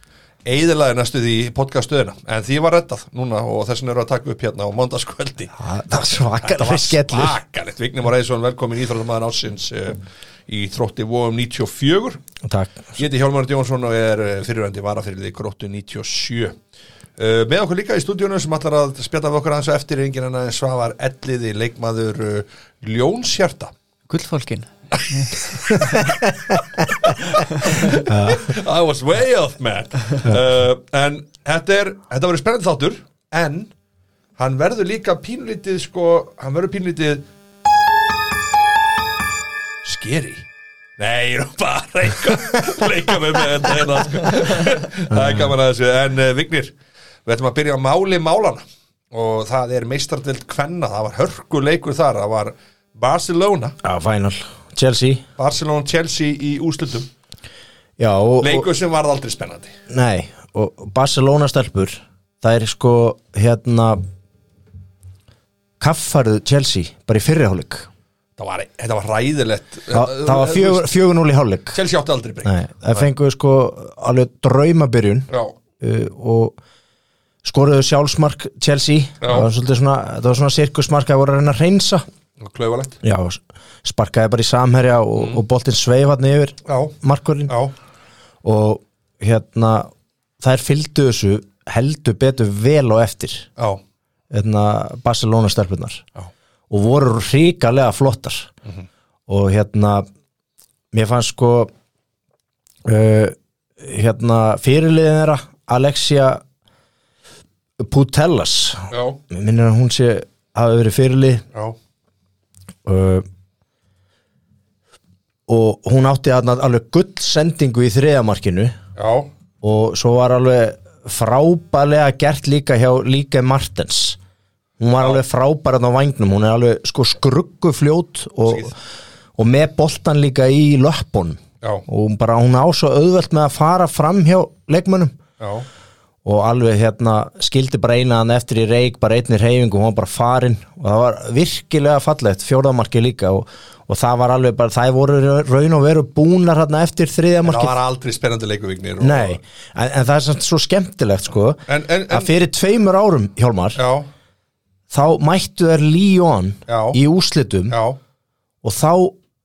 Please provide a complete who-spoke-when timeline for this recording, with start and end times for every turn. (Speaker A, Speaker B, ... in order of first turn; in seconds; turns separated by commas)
Speaker A: 0.5-5.6, Speaker B: 5.6-7.4, Speaker A: 6.4-12.2, Speaker B: 12.4-12.9, Speaker A: 12.9-16.6, Speaker A: 17.2-23.7, Speaker C: 24.1-26.2, Speaker A: 24.9-33.7, Speaker B: 25.8-26.6, Speaker B: 28.1-28.4, Speaker A: 34.4-37.3, Speaker A: 39.8-40.5, Speaker A: 41.0-46.7, Speaker B: 45.1-45.5, Speaker A: 47.2-53.8, Speaker B: 53.8-55.2, Speaker A: 55.4-57.1, Speaker B: 58.0-58.7, Speaker A: 58.4-59.8, Speaker B: 59.9-64.0, Speaker B: 65.8-67.9, Speaker A: 68.4-70.9, Speaker B: 69.9-71.8, Speaker A: 71.7-73.0, Speaker B: 72.4-75.3, Speaker A: 75.3-75.6, Speaker B: 75.8-76.6, Speaker B: 77.4-82.0, Speaker A: 79.2-79.5, Speaker A: 82.4-83.0, Speaker B: 83.0-87.5, Speaker A: 85.2-85.4, Speaker A: 86.7-87.0, Speaker A: 87.5-87.7, Speaker B: 88.4-93.5, Speaker B: 94.3-96.0, Speaker B: 96.7-98.5, Speaker B: 99.3-100.1, Speaker B: 100.9-101.7, Speaker B: 102.8-106.4, Speaker B: 107.8-111.4, Speaker A: 108.9-109.2, Speaker B: 112.8-113.3, Speaker B: 115.5-118.8, Speaker A: 119.0-119.3, Speaker B: 119.6-124.2, Speaker B: 124.8-128.8, Speaker A: 125.0-125.2, Speaker B: 129.4-135.2, Speaker A: 135.4-135.7, Speaker B: 136.2-147.8, Speaker A: 147.4-149.4, Speaker B: 149.0-153.8, Speaker A: 151.7-152.3, Speaker A: 153.8-154.1, Speaker B: 154.9-157.8, Speaker A: 156.7-157.0, Speaker A: 157.7-158.0, Speaker B: 158.6-159.2